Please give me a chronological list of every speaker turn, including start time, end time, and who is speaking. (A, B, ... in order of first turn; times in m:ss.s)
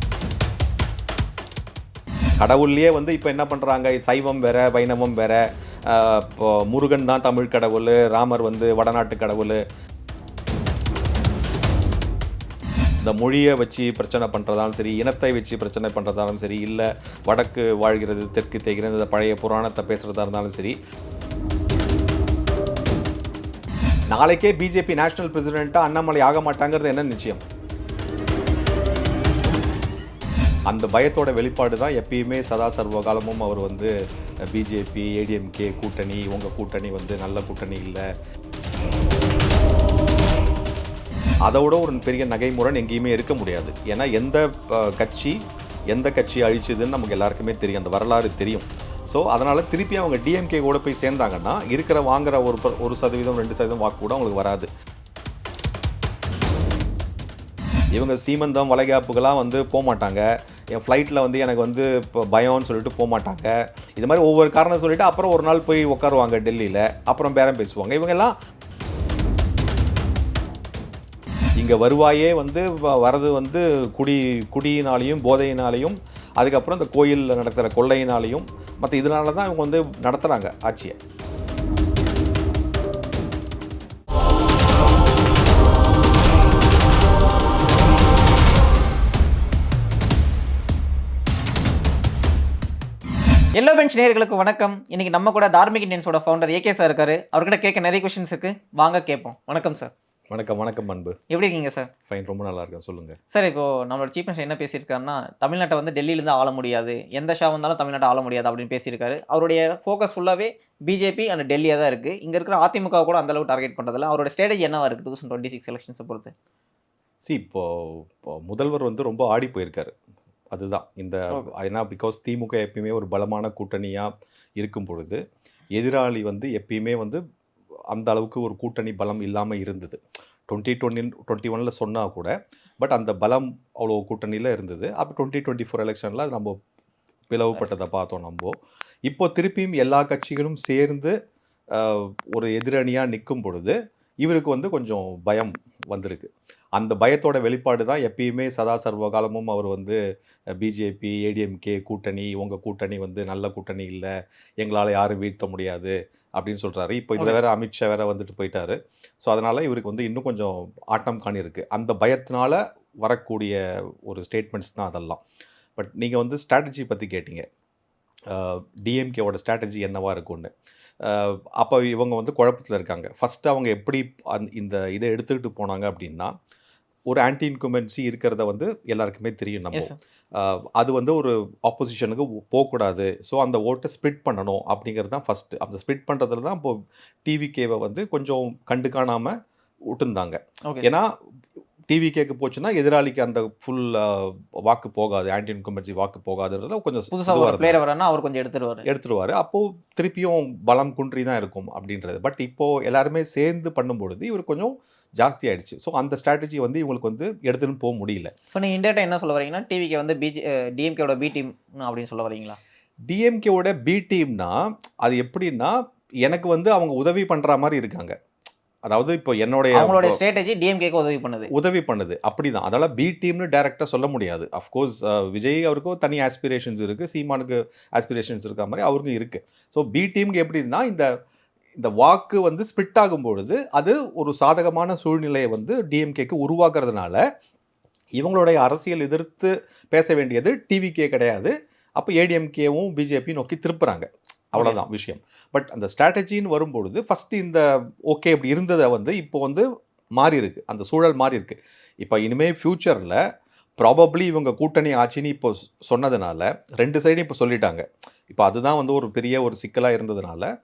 0:02.4-0:09.6 A
0:13.0-0:20.8 A
0:24.1-0:27.4 A
0:30.7-0:33.9 A
0:34.5-0:38.0 A
0:41.5-0:45.4 A
0:45.9-0:54.7 A
0:57.9-1:00.2 A
1:00.8-1:08.3 A
1:11.6-1:21.0 A
1:33.6-1:39.9 B
1:40.3-1:41.2 A
1:41.3-1:41.9 B
1:42.1-1:43.2 A
1:43.3-1:56.3 B
1:57.3-1:59.9 A
2:00.5-2:05.2 A
2:05.8-2:07.2 A
2:07.9-2:12.3 A
2:12.8-2:16.6 A
2:17.3-2:18.5 A
2:19.1-2:21.2 A
2:21.7-2:30.0 A
2:30.6-2:34.1 A
2:34.6-2:45.2 A
2:45.8-2:47.4 A
2:48.3-2:50.5 A
2:51.0-2:56.3 A
2:57.1-3:09.4 A
3:09.9-3:11.1 A
3:11.9-3:17.8 A
3:17.1-3:18.9 B
3:18.9-3:28.3 A
3:28.5-3:32.6 B
3:33.1-3:35.7 A
3:36.2-3:38.2 A
3:38.9-3:40.2 A
3:39.7-3:41.5 B
3:41.5-3:51.1 A
3:51.8-3:57.2 A
3:58.2-4:09.6 A
4:10.2-4:13.2 A
4:13.8-4:20.5 A